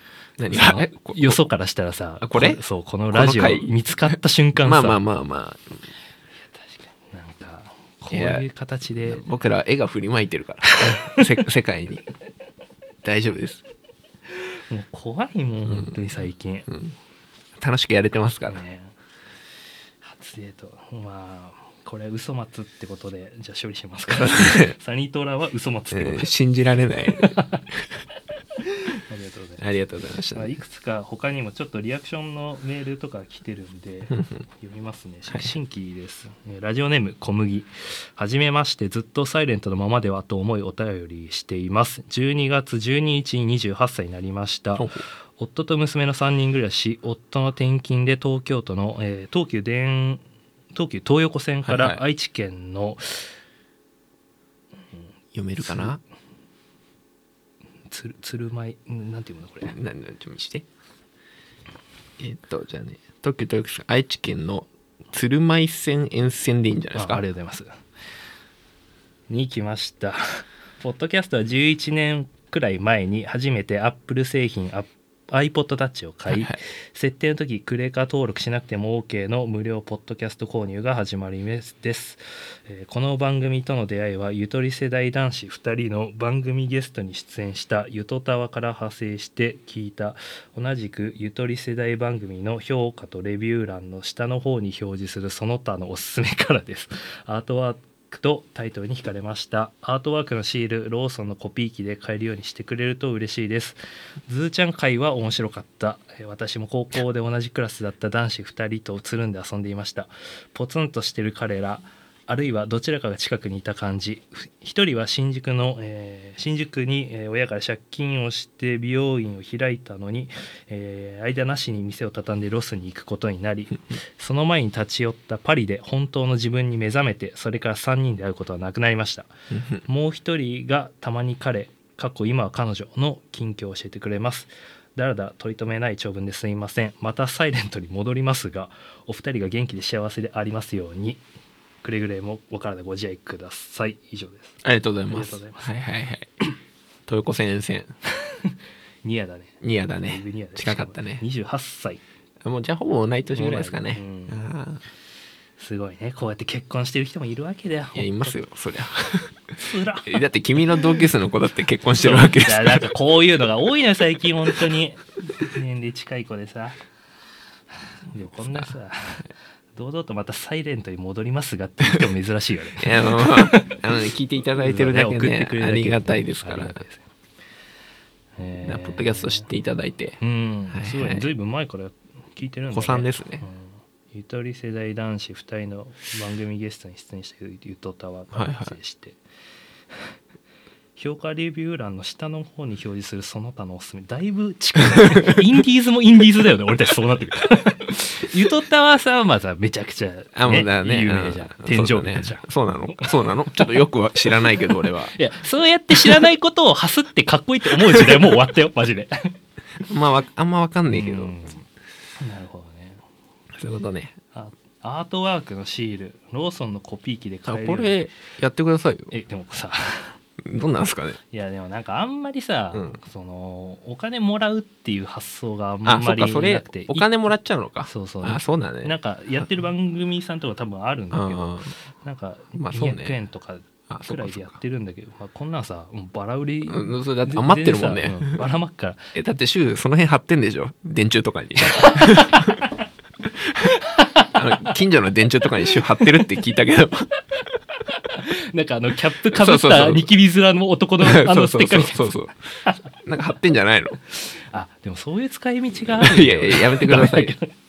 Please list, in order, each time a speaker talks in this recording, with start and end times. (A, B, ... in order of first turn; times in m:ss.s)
0:00.4-0:01.4 A
0:00.5-0:05.0 B
0:02.2-0:02.6 A
0:03.1-0:05.8 A
0:06.7-0:09.2 B
0:08.1-0:08.4 A
0:09.0-0:12.0 A
0:10.7-0:11.3 B
0:13.0-0:13.6 A
0:14.4-0:16.7 B
0:15.7-0:16.0 A
0:17.6-0:18.6 A
0:18.5-0:18.9 B
0:20.0-0:26.3 B
0:24.2-0:24.8 A
0:25.9-0:27.4 A
0:27.1-0:27.6 B
0:28.6-0:29.6 B
0:29.6-0:30.5 A
0:30.3-0:50.2 B
0:34.1-0:34.4 A
0:44.8-0:45.0 A
0:50.7-0:53.3 B
0:51.7-0:52.0 A
0:55.3-0:56.0 A
0:55.6-0:56.0 B
0:57.9-0:59.8 B
0:59.7-1:00.6 A
1:02.2-1:07.2 A
1:06.9-1:07.7 B
1:09.3-2:09.3 B
1:16.3-1:16.6 A
2:09.5-2:09.8 A
2:09.8-2:21.2 B
2:21.8-2:24.6 B
2:24.6-2:26.3 A
2:25.1-2:25.7 B
2:27.1-2:27.9 A
2:28.2-2:32.0 B
2:29.6-2:31.2 A
2:32.4-2:34.8 A
2:33.3-2:34.4 B
2:35.6-2:38.4 B
2:38.0-2:42.9 A
2:39.6-2:40.9 B
2:42.0-2:46.8 B
2:48.1-2:57.1 B
2:52.8-2:56.8 A
2:58.4-2:59.5 B
2:58.6-3:00.2 A
3:00.2-3:09.2 B
3:00.7-3:01.3 A
3:02.7-3:03.4 A
3:08.3-3:08.8 A
3:11.0-3:29.3 B
3:20.4-3:25.1 A
3:27.9-3:28.2 A
3:29.8-3:31.4 A
3:30.9-3:31.6 B
3:32.2-3:33.0 B
3:33.6-3:34.1 A
3:34.3-3:38.0 B
3:37.5-3:39.1 A
3:39.1-3:40.2 B
3:40.4-3:41.2 A
3:41.3-3:47.1 B
3:45.8-3:49.0 A
3:47.9-3:59.1 B
3:51.1-3:51.7 A
3:52.6-3:53.1 A
3:53.9-3:54.5 A
3:56.7-3:58.4 A
3:59.1-4:02.7 A
4:01.8-4:02.6 B
4:03.4-4:03.8 A
4:03.6-4:04.7 B
4:04.3-4:07.1 A
4:05.6-4:06.2 B
4:07.9-4:12.8 B
4:09.3-4:10.1 A
4:11.0-4:12.4 A
4:13.0-4:14.0 A
4:14.1-4:17.5 B
4:15.8-4:17.4 A